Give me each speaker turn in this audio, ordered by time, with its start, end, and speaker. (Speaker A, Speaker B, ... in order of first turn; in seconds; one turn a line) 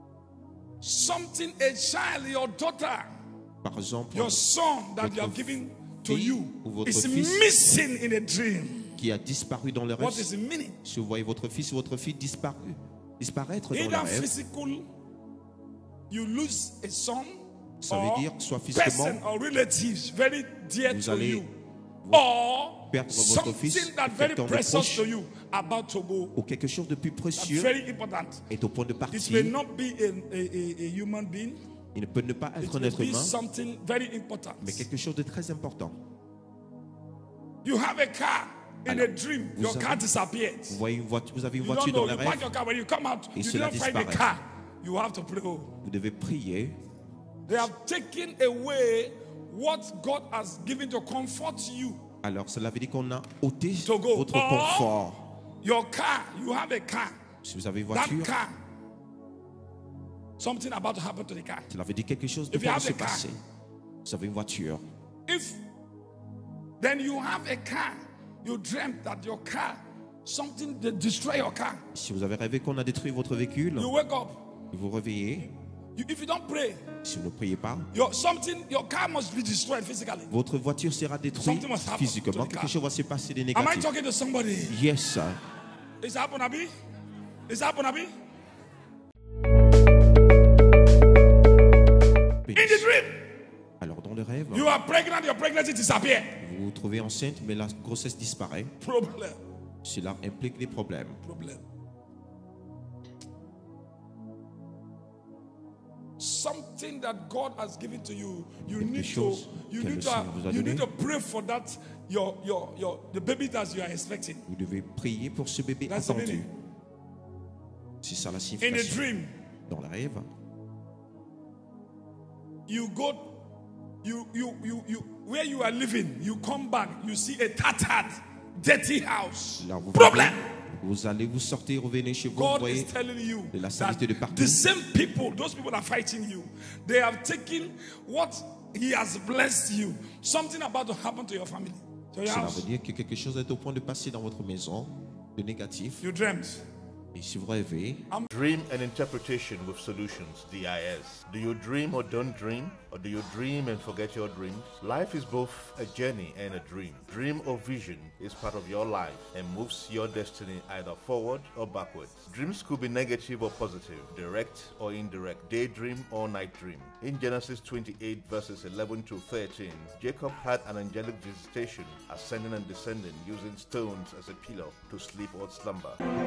Speaker A: 0.8-3.1
Speaker B: 3.6-4.4
Speaker A: 4.1-8.9
Speaker B: 5.0-7.5
Speaker B: 9.0-10.3
Speaker A: 10.0-10.8
Speaker B: 10.8-14.3
Speaker A: 13.7-14.8
Speaker A: 16.1-21.5
Speaker B: 17.8-19.2
Speaker B: 20.8-21.4
Speaker B: 22.0-25.1
Speaker A: 22.1-26.4
Speaker B: 26.3-27.7
Speaker A: 27.3-28.4
Speaker B: 28.5-29.6
Speaker A: 29.1-31.6
Speaker B: 31.9-33.4
Speaker A: 32.6-34.9
Speaker B: 34.6-36.0
Speaker A: 37.6-40.8
Speaker B: 38.9-40.1
Speaker B: 40.7-42.5
Speaker A: 41.6-45.8
Speaker B: 43.3-44.3
Speaker B: 45.8-46.8
Speaker A: 47.5-52.0
Speaker B: 52.2-55.2
Speaker A: 53.8-55.0
Speaker A: 55.6-57.2
Speaker B: 57.4-58.3
Speaker A: 57.9-58.6
Speaker A: 60.4-61.7
Speaker B: 61.7-63.4
Speaker A: 62.5-63.3
Speaker B: 64.0-64.8
Speaker A: 65.3-65.6
Speaker A: 66.8-71.8
Speaker B: 71.9-73.9
Speaker A: 73.8-74.5
Speaker B: 74.7-75.5
Speaker A: 75.9-76.9
Speaker B: 77.0-77.9
Speaker A: 77.9-80.3
Speaker B: 80.3-83.9
Speaker A: 81.4-82.8
Speaker A: 83.5-84.8
Speaker B: 84.7-85.4
Speaker A: 86.0-86.7
Speaker A: 87.5-88.1
Speaker B: 92.4-92.8
Speaker A: 92.5-93.3
Speaker B: 93.8-94.7
Speaker A: 94.5-96.4
Speaker B: 96.4-98.7
Speaker A: 98.8-99.4
Speaker B: 99.8-101.2
Speaker A: 101.2-101.6
Speaker A: 106.2-114.5
Speaker B: 108.7-110.9
Speaker B: 114.5-116.5
Speaker A: 115.9-116.5
Speaker B: 118.0-119.1
Speaker A: 118.6-119.3
Speaker B: 119.7-120.3
Speaker A: 122.7-123.4
Speaker A: 124.0-130.4
Speaker B: 129.6-132.9
Speaker A: 132.3-142.7
Speaker B: 133.5-134.6
Speaker B: 142.2-146.0
Speaker A: 146.0-146.6
Speaker B: 147.1-148.1
Speaker C: 148.3-176.0